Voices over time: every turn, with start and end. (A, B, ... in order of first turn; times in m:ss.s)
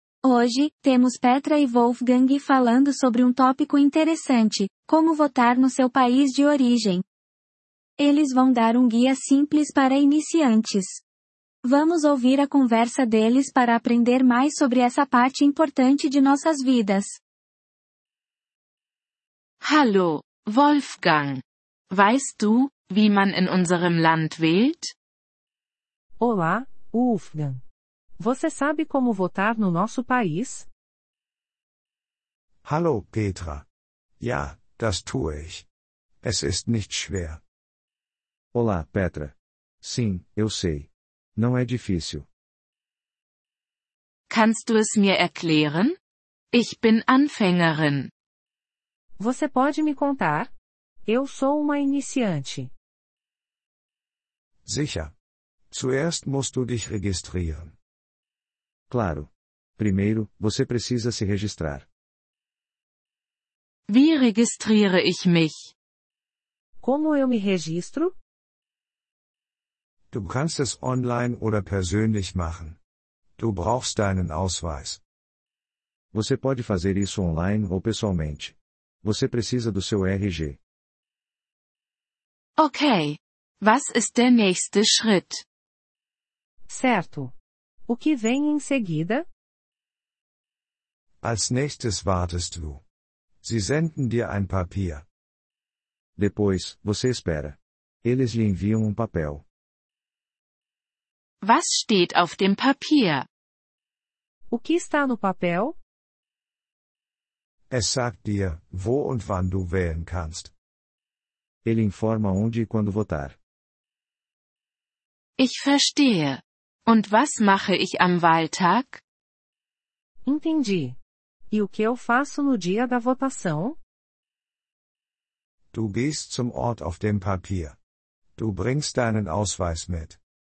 0:00.2-0:07.0 A
0:08.0-0:11.0 A
0:11.6-0:17.2 A
0:19.6-0:24.9 B
0:26.2-0:27.6 C
0:28.2-0:30.7 C
0:32.6-0:33.6 D
0:34.2-0:35.6 D
0:36.2-0:37.4 D
0:38.5-0:42.2 E
0:44.3-0:45.9 B
0:46.5-0:48.1 B
0:49.2-0:50.5 C
0:51.0-0:52.7 C
0:54.6-0:55.1 D
0:55.7-0:57.7 D
0:58.9-1:01.8 E
1:03.9-1:05.7 B
1:06.8-1:08.1 C
1:10.1-1:12.8 D
1:13.4-1:15.0 D
1:16.1-1:20.6 E
1:22.6-1:25.4 B
1:26.7-1:27.3 C
1:27.9-1:29.2 C
1:31.2-1:32.8 D
1:33.4-1:35.0 D
1:36.2-1:39.4 E
1:41.4-1:43.2 B
1:44.5-1:45.8 C
1:47.7-1:50.5 D
1:51.6-1:53.4 E
1:55.4-1:59.0 B
2:00.2-2:01.0 C
2:01.5-2:03.8 C
2:05.7-2:07.8 D
2:08.4-2:10.2 D